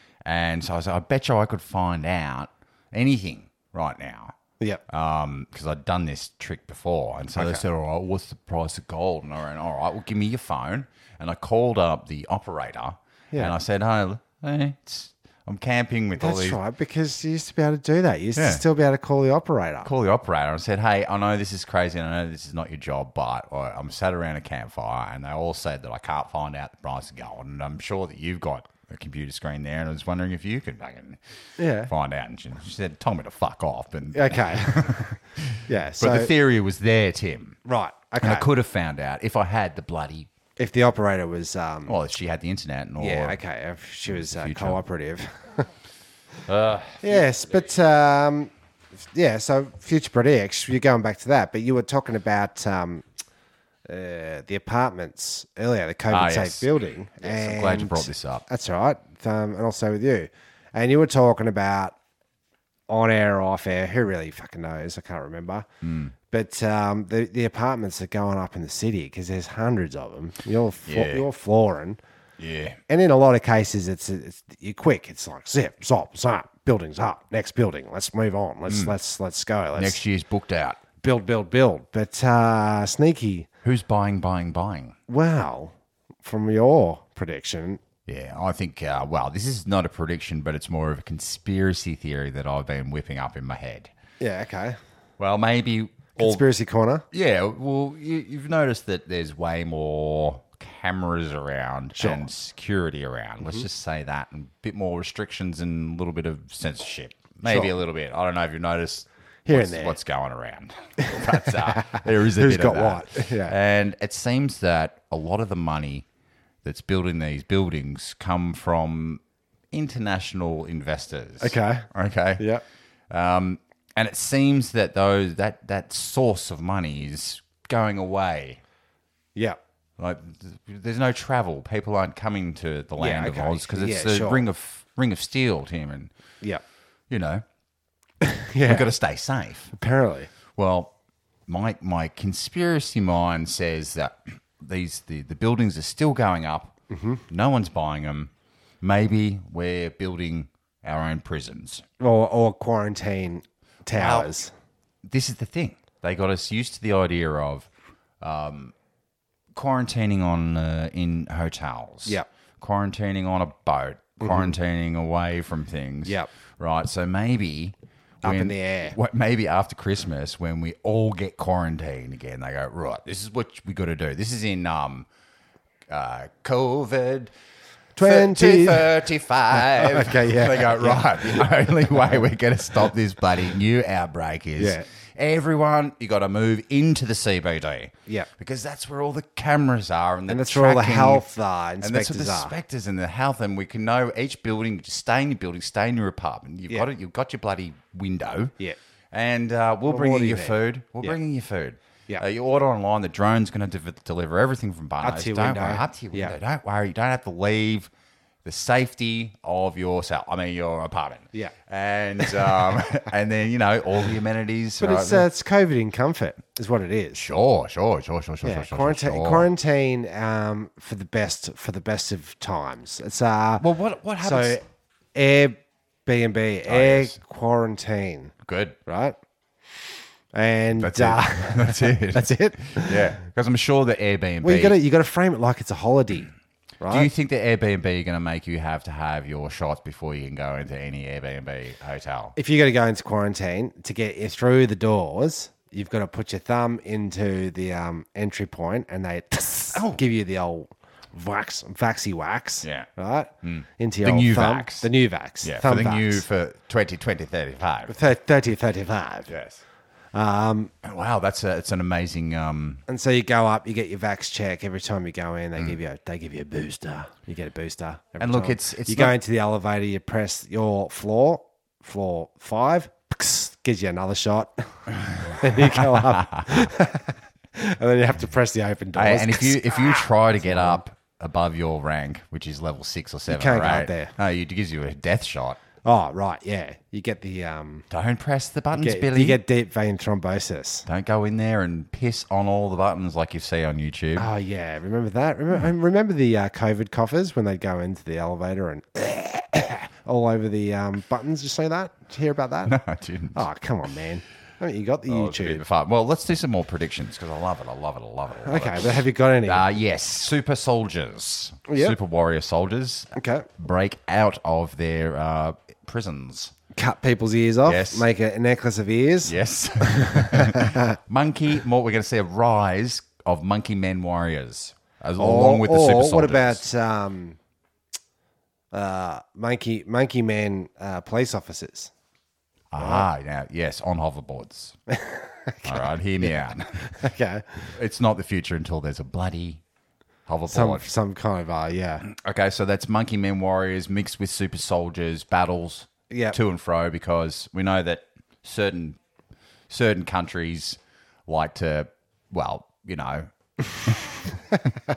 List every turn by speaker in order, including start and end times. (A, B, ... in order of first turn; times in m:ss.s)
0:00.2-0:04.4 A
0:04.9-0:16.6 A
0:07.4-0:07.6 B
0:16.2-0:19.9 B
0:18.4-0:18.6 A
0:19.8-0:31.2 A
0:31.6-0:31.9 B
0:31.8-0:37.6 A
0:34.1-0:35.1 B
0:35.7-0:36.3 B
0:37.6-0:38.5 B
0:38.2-0:40.3 A
0:40.6-0:42.0 B
0:41.9-0:43.4 A
0:43.0-0:45.7 B
0:44.1-0:44.8 A
0:46.5-0:47.7 A
0:47.0-0:48.5 B
0:49.1-0:53.0 B
0:53.9-1:02.0 B
0:56.1-0:58.5 A
1:02.9-1:05.7 B
1:05.8-1:06.1 A
1:06.3-1:12.0 B
1:10.9-1:11.3 A
1:12.4-1:12.8 A
1:12.9-1:20.0 B
1:18.7-1:19.0 A
1:19.8-1:20.8 A
1:21.0-1:23.5 B
1:23.6-1:25.0 A
1:25.1-1:27.8 B
1:28.1-1:33.9 A
1:34.2-1:34.8 B
1:35.2-1:36.4 A
1:36.2-1:37.0 B
1:37.1-1:56.1 A
1:42.0-1:42.3 B
1:47.4-1:47.8 B
1:49.5-1:50.0 B
1:51.0-1:53.6 B
1:56.6-2:02.5 A
2:01.4-2:02.6 B
2:03.1-2:08.6 A
2:10.0-2:16.1 A
2:13.0-2:14.4 B
2:17.1-2:17.4 A
2:18.2-2:18.9 B
2:18.6-2:19.7 A
2:19.7-2:20.3 B
2:20.6-2:20.9 A
2:21.5-2:26.8 A
2:26.9-2:27.2 B
2:27.3-2:31.8 A
2:32.0-2:34.5 B
2:33.9-2:34.4 A
2:35.0-2:37.7 A
2:38.2-2:38.7 A
2:39.5-2:55.1 A
2:44.2-2:44.5 B
2:48.2-2:49.0 B
2:55.9-2:57.3 A
2:58.0-2:58.9 B
2:58.0-3:11.3 A
2:59.5-3:02.2 B
3:04.6-3:04.8 B
3:10.3-3:12.5 B
3:11.8-3:18.6 A
3:19.1-3:27.9 A
3:19.9-3:21.2 B
3:25.0-3:26.4 B
3:28.4-3:35.3 A
3:32.2-3:32.5 B
3:34.8-3:37.2 B
3:37.1-3:39.5 A
3:38.4-3:43.6 B
3:43.6-3:44.6 A
3:44.2-3:44.6 B
3:45.2-3:48.3 B
3:46.7-3:47.2 A
3:48.4-3:48.8 A
3:48.9-3:49.2 B
3:50.3-3:53.2 B
3:50.8-3:54.8 A
3:54.4-3:57.1 B
3:56.9-4:02.4 A
4:02.4-4:16.2 B
4:09.7-4:10.0 A
4:12.6-4:12.9 A
4:13.4-4:14.9 A
4:15.4-4:18.0 A
4:17.9-4:19.3 B
4:19.3-4:19.6 A
4:20.1-4:20.7 B
4:20.8-4:22.8 A
4:22.9-4:40.8 B
4:28.2-4:29.2 A
4:35.4-4:36.5 A
4:39.0-4:45.6 A
4:43.3-4:44.1 B
4:45.8-4:47.8 B
4:47.9-4:49.4 A
4:48.8-4:50.9 B
4:50.9-4:54.3 A
4:54.2-5:02.8 B
5:02.7-5:03.4 A
5:03.3-5:05.6 B
5:05.1-5:16.6 A
5:08.4-5:09.7 B
5:11.7-5:12.0 B
5:13.2-5:13.5 B
5:16.8-5:20.9 B
5:17.6-5:18.1 A
5:19.2-5:26.6 A
5:25.2-5:27.4 B
5:28.7-5:31.9 B
5:32.7-5:34.8 A
5:32.8-5:33.1 B
5:34.9-5:37.7 B
5:35.6-5:36.9 A
5:37.7-5:39.6 A
5:40.3-5:40.9 A
5:40.5-5:42.0 B
5:42.0-5:49.0 A
5:46.1-5:46.4 B
5:49.7-5:53.3 A
5:53.8-5:54.2 A